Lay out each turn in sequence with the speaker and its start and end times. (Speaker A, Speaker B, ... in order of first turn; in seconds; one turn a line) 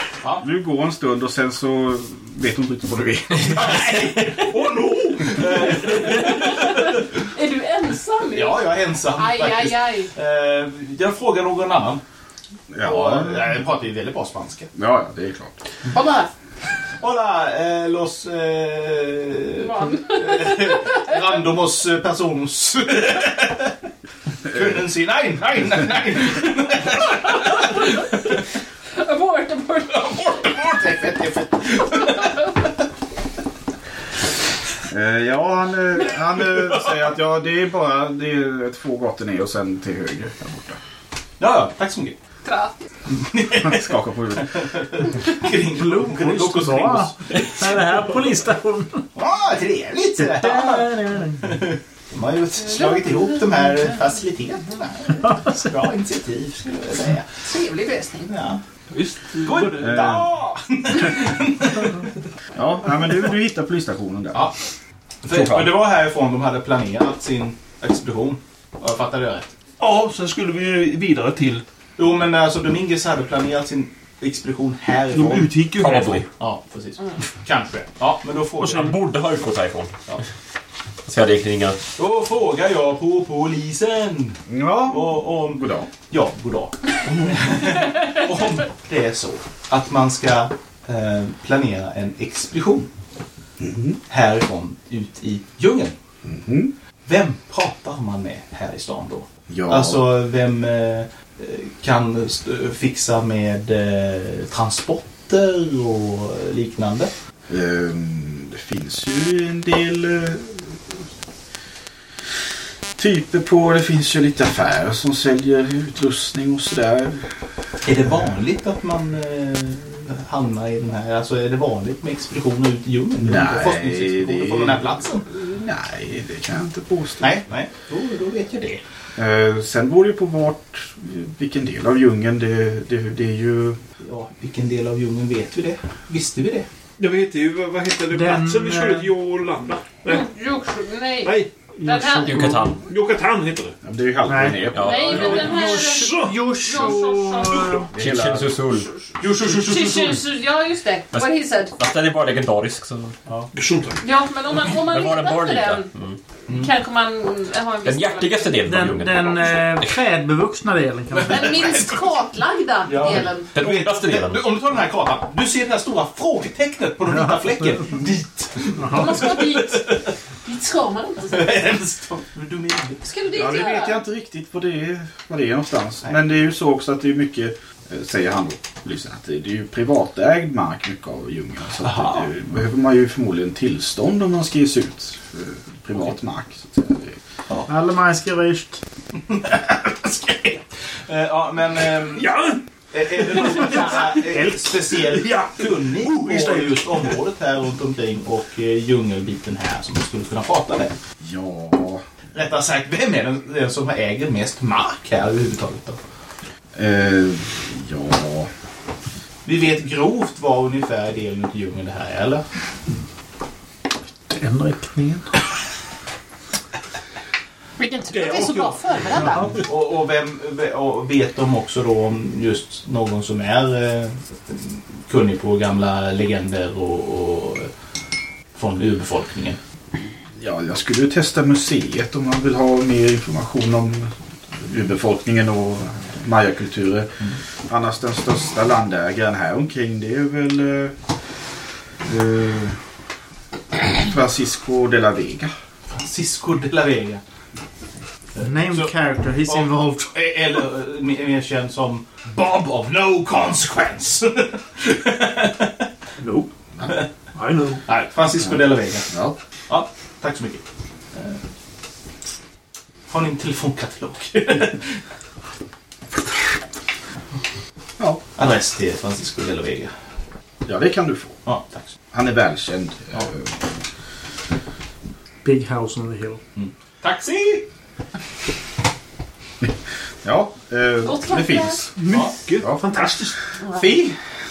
Speaker A: 0.3-3.8
Speaker B: 3.5-6.6
Speaker C: 4.4-5.9
Speaker D: 6.3-10.1
Speaker B: 8.3-12.0
Speaker A: 12.7-13.6
Speaker B: 12.8-14.7
Speaker A: 14.8-15.6
Speaker D: 15.9-16.3
Speaker B: 17.0-23.8
Speaker D: 19.6-21.1
Speaker B: 24.5-27.8
Speaker D: 28.9-30.3
Speaker B: 29.9-32.6
Speaker D: 32.0-32.5
Speaker A: 34.9-40.8
Speaker B: 41.4-42.2
Speaker D: 42.4-42.8
Speaker B: 43.1-47.2
Speaker A: 43.5-44.7
Speaker E: 45.8-49.1
Speaker B: 49.1-57.4
Speaker E: 50.2-51.6
Speaker D: 52.7-53.7
Speaker D: 57.4-58.3
Speaker B: 58.3-58.6
Speaker C: 58.9-60.1
Speaker B: 59.4-62.0
Speaker A: 59.8-60.3
Speaker A: 62.5-64.5
Speaker B: 65.2-69.5
Speaker C: 69.8-71.7
Speaker B: 72.0-75.5
Speaker C: 75.1-76.3
Speaker F: 75.8-76.3
Speaker B: 76.3-79.0
Speaker F: 78.6-79.9
Speaker F: 81.1-81.8
Speaker B: 82.0-92.9
Speaker A: 84.5-85.9
Speaker A: 93.6-94.0
Speaker B: 94.1-96.0
Speaker A: 96.2-96.7
Speaker B: 97.1-107.1
Speaker A: 99.5-100.1
Speaker A: 107.5-110.9
Speaker A: 113.0-117.3
Speaker B: 117.8-125.3
Speaker A: 123.2-127.4
Speaker B: 127.2-128.8
Speaker A: 129.2-133.8
Speaker B: 134.0-136.7
Speaker C: 137.0-140.3
Speaker E: 138.1-139.1
Speaker D: 140.0-141.3
Speaker C: 141.2-143.8
Speaker D: 141.8-142.5
Speaker E: 141.9-142.5
Speaker F: 142.2-142.8
Speaker A: 143.8-145.3
Speaker E: 144.3-144.8
Speaker F: 144.7-145.5
Speaker D: 144.8-147.8
Speaker C: 145.0-147.8
Speaker E: 145.3-147.9
Speaker A: 147.9-148.6
Speaker F: 148.0-148.9
Speaker D: 148.7-151.8
Speaker B: 149.2-150.2
Speaker F: 151.1-153.2
Speaker C: 153.5-154.0
Speaker D: 154.0-155.9
Speaker F: 154.6-156.2
Speaker B: 156.5-156.7
Speaker D: 156.5-158.6
Speaker F: 157.8-159.9
Speaker E: 158.7-161.6
Speaker B: 161.2-162.1
Speaker D: 161.2-163.6
Speaker B: 162.8-169.7
Speaker F: 163.5-164.5
Speaker D: 168.9-171.6
Speaker B: 171.3-173.1
Speaker D: 173.0-174.0
Speaker A: 173.3-187.2
Speaker B: 181.8-182.3
Speaker E: 187.7-188.8
Speaker B: 189.2-192.3
Speaker C: 192.1-197.2
Speaker B: 192.9-200.9
Speaker A: 201.2-202.0
Speaker B: 202.3-206.0
Speaker A: 206.8-208.5
Speaker B: 209.4-212.4
Speaker E: 214.3-215.3
Speaker D: 217.8-219.6
Speaker C: 218.1-219.6
Speaker B: 219.7-227.7
Speaker B: 228.6-229.6
Speaker A: 230.4-240.9
Speaker A: 242.0-242.8
Speaker A: 243.8-245.5
Speaker B: 245.9-247.2
Speaker B: 248.4-248.9
Speaker E: 248.4-250.1
Speaker B: 249.5-255.9
Speaker C: 256.2-256.5
Speaker C: 257.4-257.9
Speaker B: 257.9-259.1
Speaker A: 259.1-259.4
Speaker B: 259.7-260.6
Speaker B: 261.1-261.4
Speaker B: 263.1-264.9
Speaker B: 268.4-269.9
Speaker A: 270.6-271.4
Speaker B: 271.4-271.9
Speaker A: 272.1-273.5
Speaker E: 275.4-276.4
Speaker B: 276.6-277.7
Speaker A: 280.2-281.9
Speaker D: 281.0-281.9
Speaker C: 282.0-283.4
Speaker B: 282.1-282.4
Speaker A: 282.6-282.9
Speaker B: 283.8-284.1